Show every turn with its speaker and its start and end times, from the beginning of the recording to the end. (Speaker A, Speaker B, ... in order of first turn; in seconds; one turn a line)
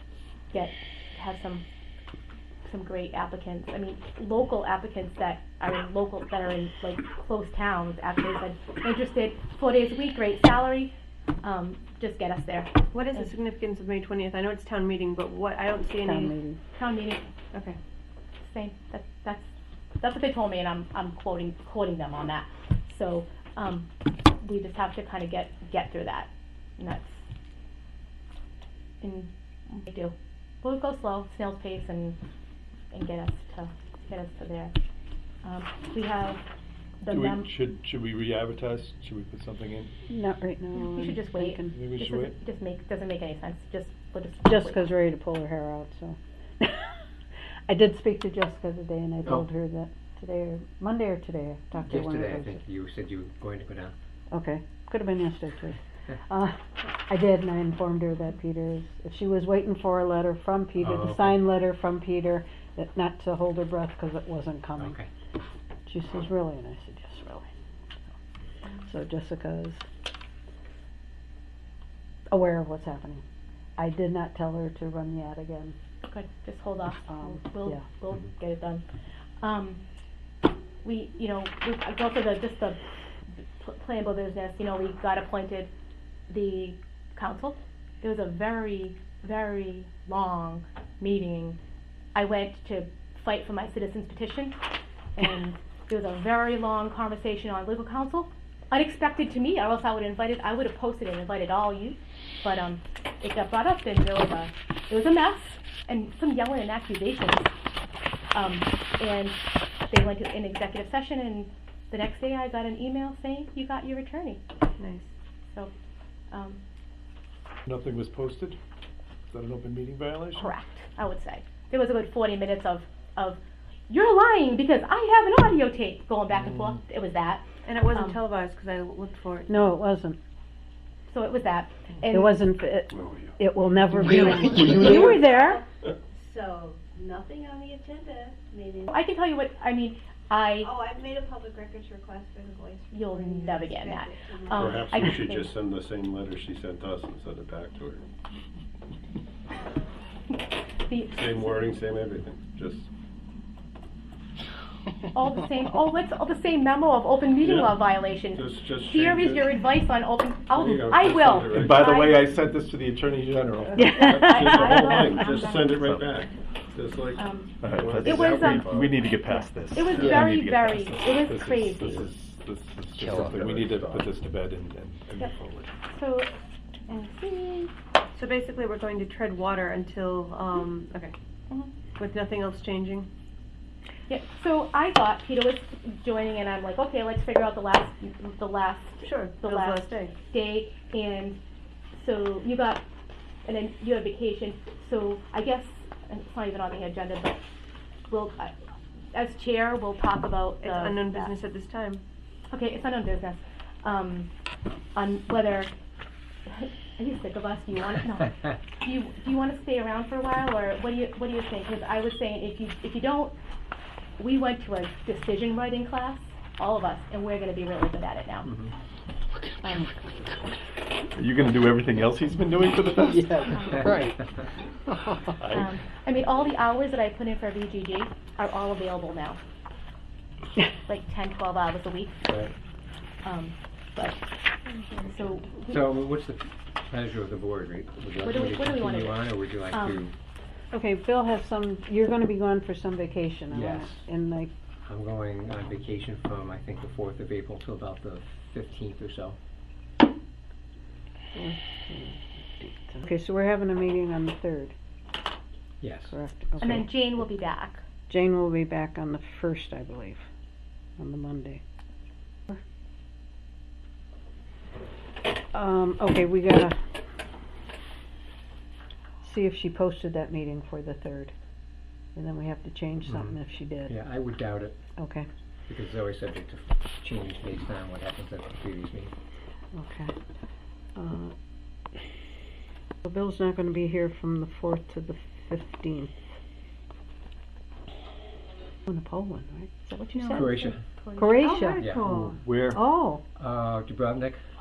Speaker A: 0.5-1.6
Speaker A: 2.6-13.3
Speaker B: 12.9-16.3
Speaker C: 16.0-16.6
Speaker A: 16.8-17.2
Speaker A: 18.5-23.9
Speaker A: 24.4-27.2
Speaker A: 29.0-32.2
Speaker A: 32.9-34.7
Speaker A: 35.4-36.4
Speaker A: 37.0-37.5
Speaker D: 37.1-39.9
Speaker C: 40.1-41.7
Speaker A: 40.7-44.8
Speaker D: 41.7-42.4
Speaker C: 44.4-47.0
Speaker C: 47.7-52.6
Speaker E: 51.9-53.9
Speaker C: 54.3-64.9
Speaker E: 60.8-61.4
Speaker E: 64.8-65.1
Speaker C: 65.8-67.5
Speaker C: 68.8-69.8
Speaker C: 72.3-73.2
Speaker C: 73.8-75.8
Speaker A: 76.0-78.8
Speaker C: 77.1-77.8
Speaker A: 79.4-79.8
Speaker A: 80.8-82.8
Speaker A: 83.6-85.7
Speaker A: 86.3-91.6
Speaker A: 92.1-94.6
Speaker A: 95.2-107.5
Speaker A: 108.3-114.4
Speaker B: 114.8-115.1
Speaker A: 116.3-116.6
Speaker D: 117.7-118.6
Speaker D: 119.3-120.5
Speaker A: 120.3-128.2
Speaker B: 127.6-129.6
Speaker C: 129.5-130.2
Speaker A: 131.1-132.4
Speaker C: 132.1-135.6
Speaker F: 132.9-133.3
Speaker G: 134.1-135.6
Speaker D: 134.6-134.9
Speaker G: 136.1-138.9
Speaker A: 138.9-140.7
Speaker G: 140.6-144.9
Speaker A: 142.9-145.5
Speaker F: 144.6-148.0
Speaker A: 150.9-151.7
Speaker F: 151.1-152.9
Speaker A: 155.1-162.2
Speaker F: 157.4-157.8
Speaker F: 158.3-159.5
Speaker F: 160.5-162.1
Speaker D: 161.4-164.1
Speaker C: 163.8-165.4
Speaker F: 163.8-169.1
Speaker A: 164.1-165.8
Speaker D: 165.8-166.1
Speaker A: 167.2-168.7
Speaker D: 167.6-175.7
Speaker A: 169.7-172.1
Speaker F: 169.8-170.3
Speaker E: 172.9-174.1
Speaker A: 175.9-176.3
Speaker A: 176.9-177.7
Speaker B: 178.1-181.1
Speaker B: 182.0-183.1
Speaker A: 184.1-191.4
Speaker B: 189.0-190.1
Speaker A: 191.9-192.8
Speaker A: 193.4-197.4
Speaker A: 198.1-198.5
Speaker A: 199.1-201.3
Speaker B: 200.6-202.0
Speaker A: 202.5-204.3
Speaker A: 204.9-205.7
Speaker A: 206.5-213.3
Speaker A: 214.2-218.5
Speaker E: 218.4-218.7
Speaker D: 221.1-223.4
Speaker C: 223.1-224.2
Speaker A: 223.5-223.9
Speaker C: 224.9-225.3
Speaker D: 225.4-225.7
Speaker A: 225.5-229.4
Speaker A: 230.9-232.2
Speaker E: 232.3-232.5
Speaker A: 233.2-234.2
Speaker A: 235.0-235.8
Speaker E: 235.6-240.1
Speaker A: 238.2-240.1
Speaker C: 240.7-244.5
Speaker E: 243.5-244.0
Speaker E: 244.8-249.4
Speaker C: 251.3-254.7
Speaker E: 255.8-256.1
Speaker C: 256.1-257.0
Speaker A: 256.6-257.8
Speaker C: 258.1-260.2
Speaker C: 261.0-261.6
Speaker C: 265.5-266.8
Speaker C: 269.2-271.3
Speaker C: 272.1-274.0
Speaker E: 273.0-274.8
Speaker C: 275.0-275.3
Speaker E: 275.7-279.1
Speaker C: 279.7-280.1
Speaker C: 280.9-281.3
Speaker C: 283.0-286.1
Speaker C: 288.9-290.6
Speaker B: 290.1-290.5
Speaker E: 290.3-290.8
Speaker A: 290.5-291.6
Speaker C: 291.1-291.8
Speaker B: 291.2-292.4
Speaker E: 291.7-292.2
Speaker D: 292.0-292.8
Speaker C: 292.7-293.2
Speaker E: 293.4-294.4